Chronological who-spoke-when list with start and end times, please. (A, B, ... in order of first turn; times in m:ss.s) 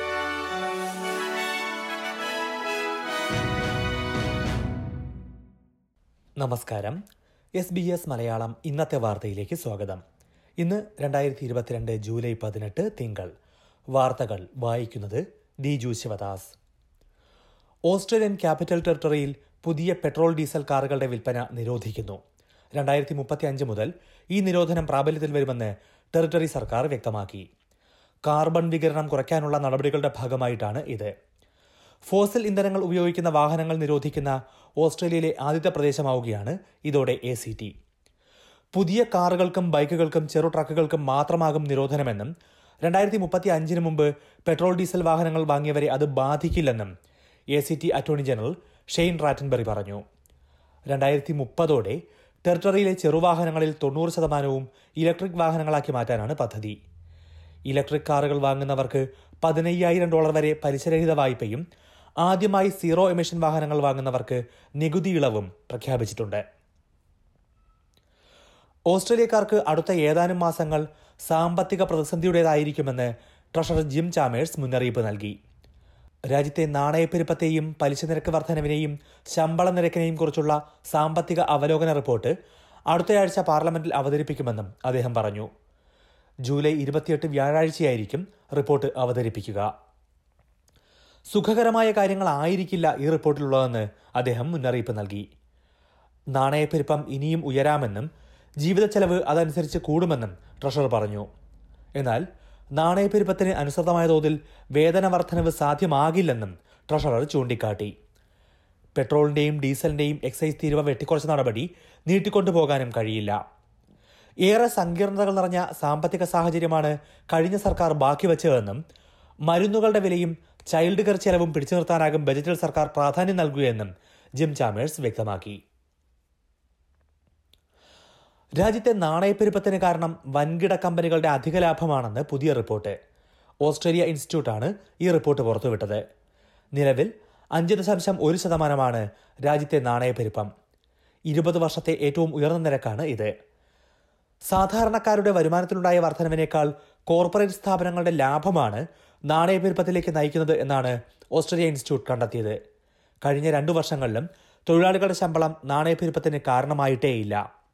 0:06.4-0:07.0 A
0:07.6-0:10.0 A
0:10.6-0:13.3 A
0:13.9-0:16.6 A
0:17.9-0:22.2 A
0:22.8-0:27.5 A
0:28.3-0:31.1 A
0:32.1-0:37.7 A
0:38.7-0:42.3 A
0:42.8-0:46.9 A
0:47.5-0:50.0 A
0:50.9-0:56.8 A
0:57.7-1:01.6 A
1:02.2-1:06.4 A
1:08.9-1:15.3 A
1:16.3-1:22.3 A
1:22.9-1:25.5 A
1:26.5-1:29.7 A
1:31.3-1:35.2 A
1:36.3-1:38.1 A
1:38.6-1:41.3 A
1:42.0-1:42.2 A
1:42.8-1:47.9 A
1:49.0-1:53.4 A
1:54.4-1:58.8 A
1:59.5-2:05.6 A
2:08.6-2:13.0 A
2:13.6-2:16.0 A
2:16.8-2:20.5 A
2:21.3-2:23.3 A
2:24.5-2:32.6 A
2:33.2-2:37.4 A